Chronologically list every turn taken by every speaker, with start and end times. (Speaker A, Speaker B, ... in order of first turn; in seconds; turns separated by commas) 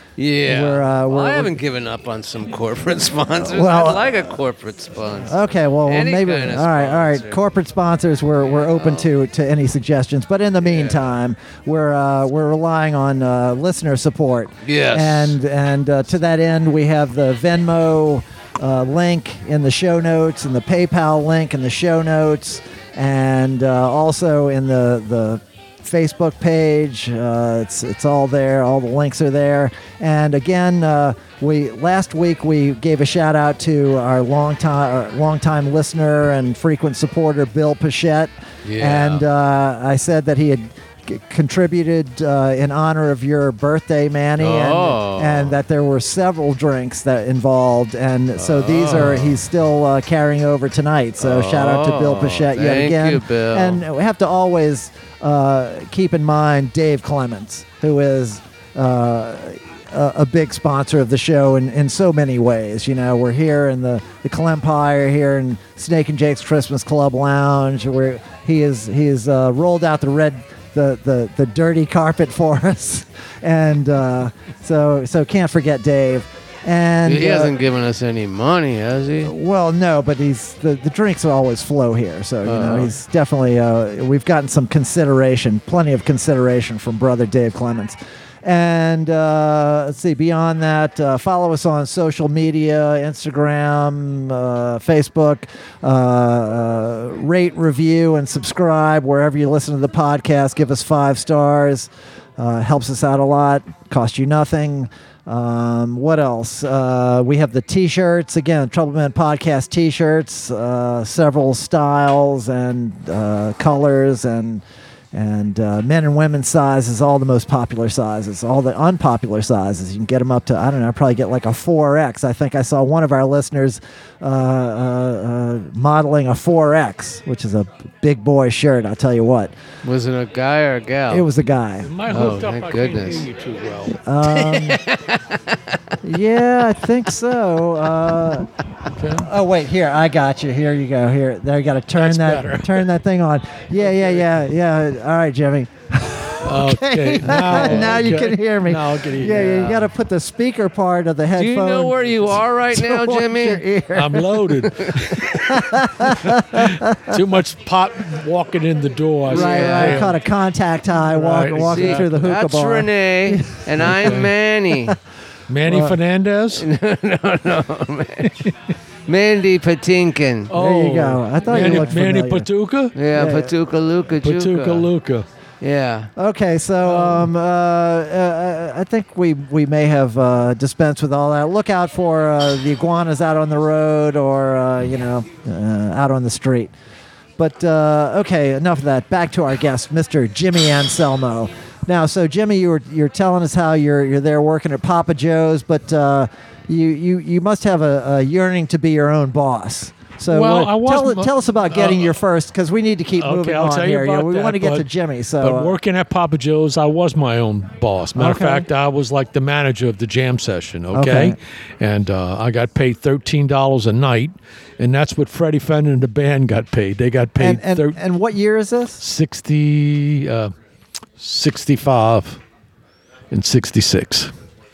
Speaker A: 0.2-7.4, Speaker B: 0.4-1.6, Speaker B: 3.4-4.2, Speaker B: 5.2-77.5, Speaker A: 14.6-15.3, Speaker A: 38.6-39.2, Speaker A: 44.4-45.6, Speaker A: 48.4-49.4, Speaker A: 51.2-53.8, Speaker A: 77.0-79.3, Speaker B: 79.2-129.5, Speaker A: 82.4-82.9, Speaker A: 129.8-131.3, Speaker B: 131.1-131.9, Speaker C: 131.8-134.0, Speaker A: 132.1-133.3, Speaker B: 133.9-134.8, Speaker A: 134.3-135.8, Speaker B: 136.0-138.5, Speaker C: 138.9-139.3, Speaker B: 139.2-154.6, Speaker C: 142.0-142.9, Speaker C: 143.9-144.2, Speaker C: 146.4-149.8, Speaker A: 147.2-148.0, Speaker A: 149.2-149.7, Speaker A: 151.3-153.6, Speaker C: 153.9-160.2, Speaker B: 155.2-157.2, Speaker B: 159.3-164.1, Speaker A: 159.3-160.1, Speaker C: 161.0-162.3, Speaker A: 161.6-164.9, Speaker C: 163.8-164.3, Speaker C: 165.5-166.7, Speaker B: 165.7-165.9, Speaker A: 166.5-168.5, Speaker A: 169.1-170.5, Speaker C: 170.5-172.9, Speaker B: 170.5-172.5, Speaker A: 172.9-174.9, Speaker B: 173.1-173.5, Speaker C: 174.2-175.2, Speaker A: 175.6-176.1, Speaker B: 176.2-186.7, Speaker C: 176.8-177.2, Speaker B: 187.4-205.8, Speaker C: 200.3-202.1, Speaker C: 203.2-204.8, Speaker C: 205.4-218.0, Speaker B: 208.2-208.7, Speaker B: 210.9-211.4, Speaker B: 217.4-219.0, Speaker C: 219.0-220.5, Speaker C: 221.2-222.4, Speaker C: 223.3-224.3